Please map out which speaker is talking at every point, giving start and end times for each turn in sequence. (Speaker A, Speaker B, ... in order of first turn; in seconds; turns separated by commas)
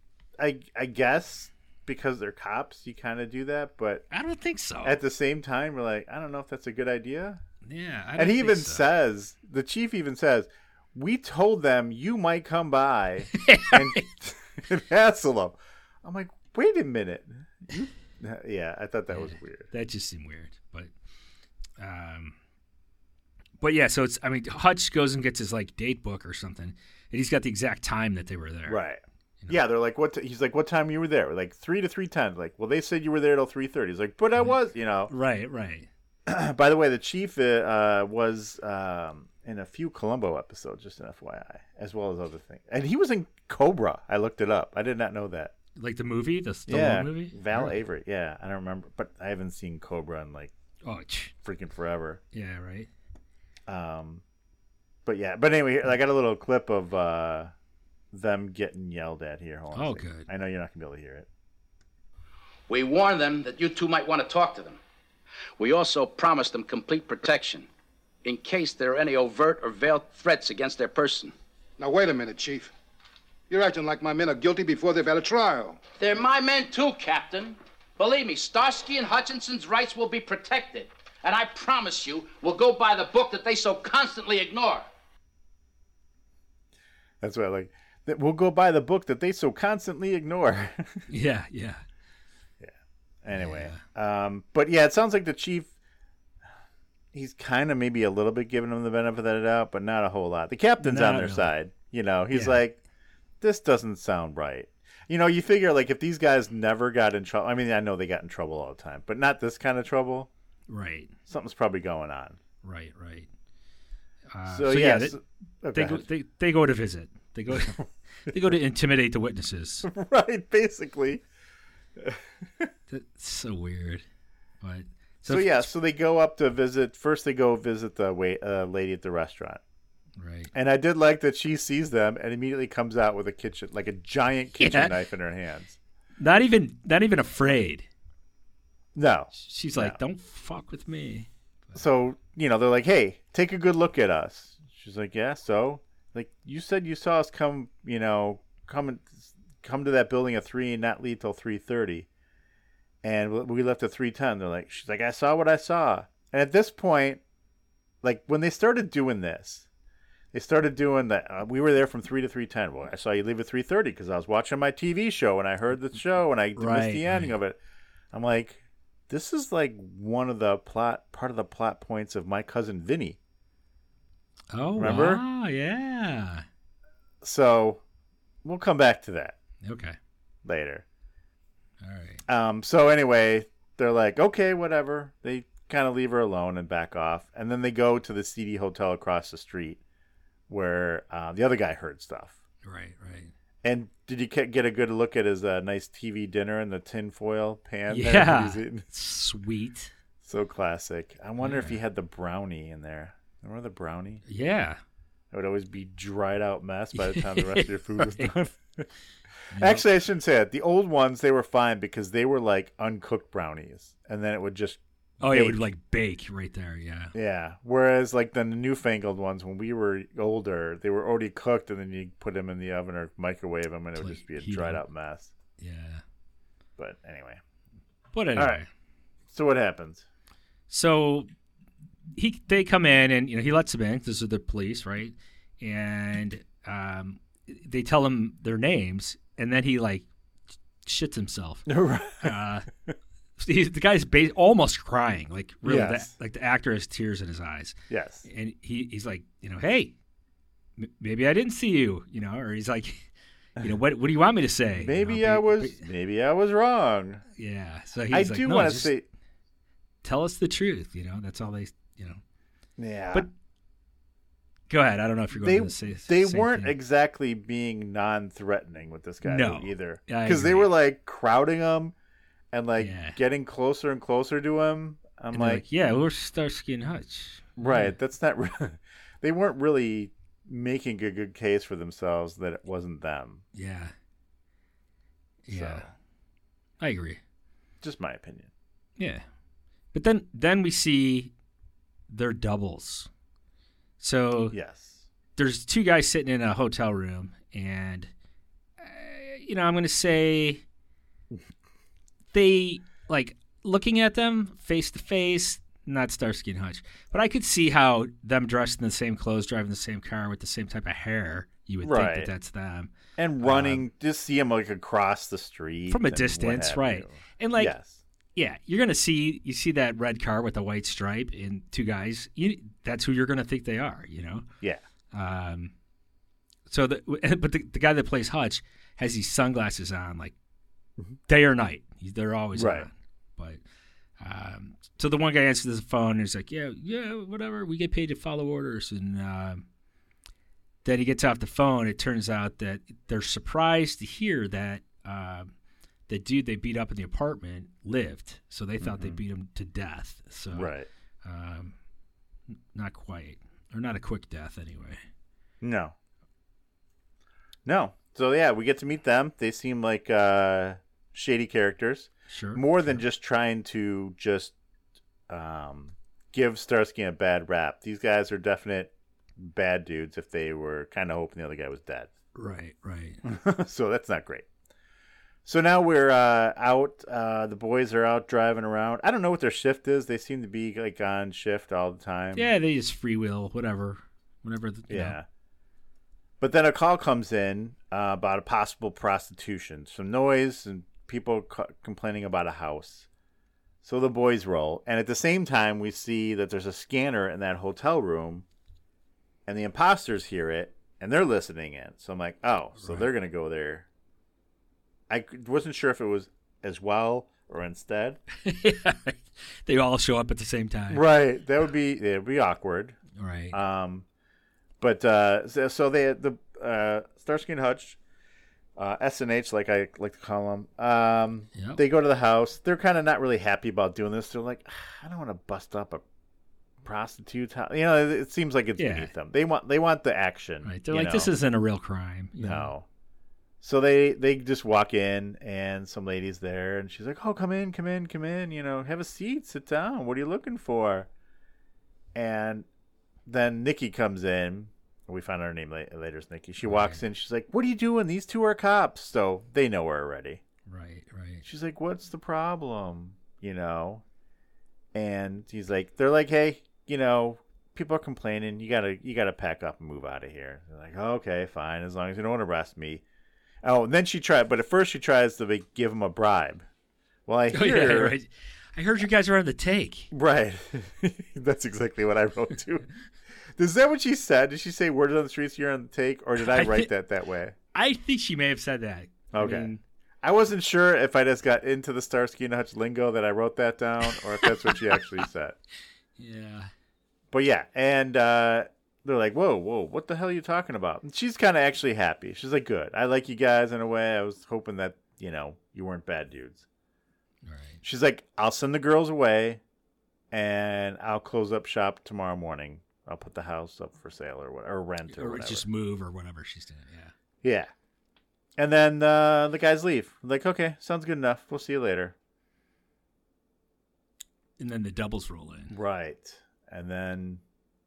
Speaker A: 0.4-4.0, Speaker B: 4.1-5.0, Speaker A: 4.8-7.4, Speaker B: 7.6-8.8, Speaker A: 8.2-19.7, Speaker B: 13.3-14.0, Speaker B: 19.1-20.9, Speaker B: 21.8-22.3, Speaker B: 23.6-28.8, Speaker A: 28.7-35.1, Speaker B: 35.1-35.9, Speaker A: 36.3-45.5, Speaker B: 45.8-47.7, Speaker A: 46.7-50.5, Speaker B: 50.8-51.3, Speaker A: 51.4-52.2, Speaker B: 52.3-52.9, Speaker A: 53.7-54.2, Speaker A: 55.0-57.5, Speaker A: 58.1-61.3, Speaker B: 59.7-60.3, Speaker C: 62.7-64.8, Speaker C: 65.6-67.7, Speaker C: 68.2-71.3, Speaker D: 71.8-72.7, Speaker D: 73.5-75.8, Speaker C: 76.0-84.8, Speaker A: 87.2-91.1, Speaker B: 91.1-91.8, Speaker A: 92.6-95.7, Speaker B: 93.3-93.8, Speaker A: 97.1-102.8, Speaker B: 100.8-101.5, Speaker B: 102.3-102.6, Speaker A: 103.4-110.3, Speaker B: 110.7-111.1, Speaker A: 111.3-112.4, Speaker B: 112.6-113.3, Speaker B: 114.3-115.2, Speaker A: 114.5-116.0, Speaker B: 115.7-119.9, Speaker A: 117.5-117.9, Speaker A: 119.8-121.2, Speaker A: 122.0-122.7, Speaker B: 122.9-124.0, Speaker B: 124.6-125.7, Speaker A: 125.2-129.6, Speaker B: 130.2-130.5, Speaker A: 130.5-135.8, Speaker B: 134.6-135.0, Speaker B: 136.2-137.8, Speaker A: 138.9-140.0, Speaker B: 139.3-141.7, Speaker A: 141.7-152.1, Speaker A: 153.0-157.2, Speaker A: 158.0-159.7, Speaker A: 160.3-167.6, Speaker B: 166.6-167.3, Speaker A: 168.1-173.2, Speaker B: 174.5-176.4, Speaker A: 174.8-175.2, Speaker A: 177.2-177.8, Speaker A: 178.4-179.3, Speaker B: 179.6-180.0, Speaker A: 180.4-180.8, Speaker B: 181.8-182.2, Speaker A: 182.3-189.8, Speaker A: 190.5-192.4, Speaker B: 192.6-193.3, Speaker A: 193.6-198.8, Speaker B: 197.9-199.9, Speaker A: 200.2-204.2, Speaker B: 201.4-201.8, Speaker B: 204.2-204.8, Speaker A: 205.3-208.9, Speaker B: 206.9-208.3, Speaker B: 209.5-209.8, Speaker A: 209.5-215.7, Speaker B: 215.2-217.1, Speaker A: 217.1-225.3, Speaker B: 223.9-224.8, Speaker B: 225.6-226.0, Speaker A: 226.8-227.4, Speaker B: 228.1-228.7, Speaker A: 228.3-228.6, Speaker A: 229.3-230.0, Speaker B: 230.7-231.3, Speaker B: 232.1-240.1, Speaker B: 240.8-241.7, Speaker A: 241.7-242.3, Speaker B: 242.2-242.7, Speaker B: 243.4-249.9, Speaker A: 245.6-246.1, Speaker A: 247.9-248.2, Speaker B: 250.8-253.1, Speaker B: 253.6-255.8, Speaker A: 254.7-257.2, Speaker B: 257.4-258.9, Speaker A: 258.1-259.0, Speaker B: 260.0-262.2, Speaker A: 262.8-263.3, Speaker B: 264.7-266.8, Speaker A: 265.3-271.9, Speaker B: 269.2-270.7, Speaker A: 272.5-275.6, Speaker B: 272.8-273.2, Speaker B: 275.3-277.9, Speaker A: 277.6-283.4, Speaker B: 283.5-283.9, Speaker B: 285.4-285.9, Speaker A: 285.5-285.9, Speaker B: 286.8-287.2, Speaker A: 287.8-288.5, Speaker B: 289.0-289.2, Speaker B: 289.9-291.3, Speaker B: 292.1-293.1, Speaker B: 294.0-294.5, Speaker A: 294.5-295.0, Speaker B: 295.4-298.1, Speaker B: 298.8-300.6, Speaker B: 302.3-313.9, Speaker A: 311.8-312.3, Speaker A: 313.2-318.0, Speaker B: 315.9-317.7, Speaker B: 318.4-324.5, Speaker B: 325.1-325.7, Speaker B: 326.7-330.3, Speaker B: 331.3-333.6, Speaker A: 332.5-332.9, Speaker B: 334.2-339.6, Speaker B: 340.8-345.5, Speaker B: 346.1-351.7, Speaker A: 348.8-349.2, Speaker A: 350.5-350.9, Speaker B: 352.7-355.0, Speaker A: 355.6-355.9, Speaker A: 357.6-364.5, Speaker B: 362.3-363.0, Speaker A: 365.3-372.1, Speaker B: 372.3-373.2, Speaker A: 373.2-374.5, Speaker A: 375.4-382.5, Speaker B: 382.3-385.2, Speaker A: 384.9-385.2, Speaker A: 386.4-393.1, Speaker A: 393.8-398.4, Speaker A: 399.4-403.9, Speaker B: 402.8-403.1, Speaker A: 405.1-408.2, Speaker B: 408.4-411.0, Speaker A: 410.9-413.0, Speaker B: 413.1-413.6, Speaker A: 413.5-414.0, Speaker A: 414.8-418.0, Speaker A: 418.8-426.0, Speaker B: 421.6-421.8, Speaker A: 426.8-431.3, Speaker B: 428.8-429.1, Speaker B: 430.6-432.7, Speaker A: 432.4-432.9, Speaker A: 433.6-441.1, Speaker A: 442.1-442.6, Speaker A: 443.2-450.4, Speaker B: 446.6-447.0, Speaker B: 450.7-451.4, Speaker A: 451.4-454.0, Speaker A: 454.9-463.0, Speaker A: 463.6-466.6, Speaker A: 467.2-468.1, Speaker B: 467.5-470.1, Speaker A: 470.1-472.9, Speaker A: 473.5-477.5, Speaker B: 476.4-476.9, Speaker B: 477.7-479.8, Speaker A: 479.3-479.7, Speaker A: 480.2-485.6, Speaker B: 484.2-484.8, Speaker B: 486.2-486.7, Speaker A: 487.3-496.6, Speaker B: 497.4-497.8, Speaker A: 497.8-499.6, Speaker A: 500.3-505.6, Speaker B: 505.1-507.1, Speaker A: 507.4-507.7, Speaker A: 508.6-512.1, Speaker B: 514.6-515.7, Speaker A: 515.7-517.4